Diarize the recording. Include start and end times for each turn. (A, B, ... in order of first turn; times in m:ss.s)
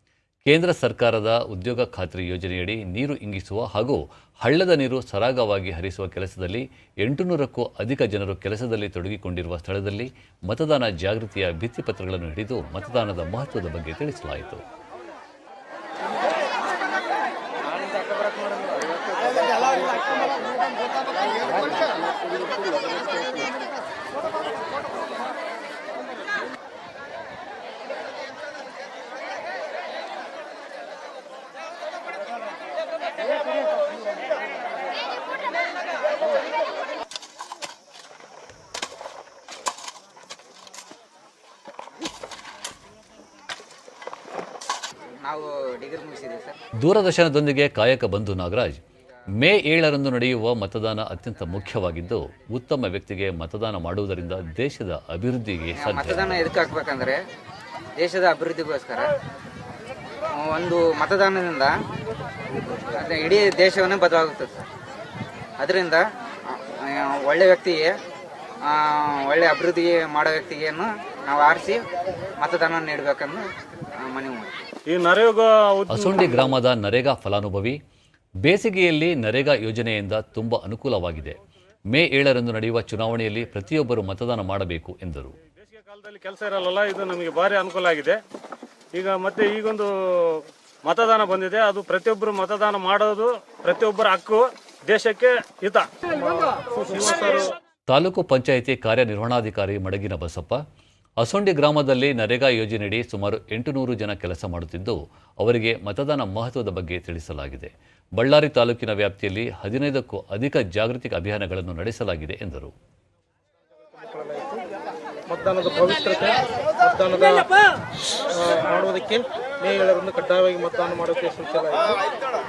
0:00.5-0:14.6 A
0:18.0-0:18.7 B
0:45.2-0:46.6 B
0:46.8-0:48.8 A
0:49.4-0:56.3 A
0:55.8-0:57.2 B
0:58.0-0:59.1 B
1:00.3-1:01.7 B
1:02.9-1:04.6 B
1:05.6-1:08.0 B
1:08.6-1:11.8 B
1:12.4-1:13.5 B
1:14.0-1:14.7 B
1:14.9-1:16.5 C
1:15.9-1:17.8 A
1:18.4-1:21.4 A
1:21.9-1:25.4 A
1:25.5-1:28.2 C
1:28.9-1:36.1 C
1:36.2-1:37.5 D
1:37.9-1:40.6 A
1:41.2-1:52.7 A
1:54.0-1:54.6 D
1:55.3-1:57.5 D
1:58.3-2:02.0 D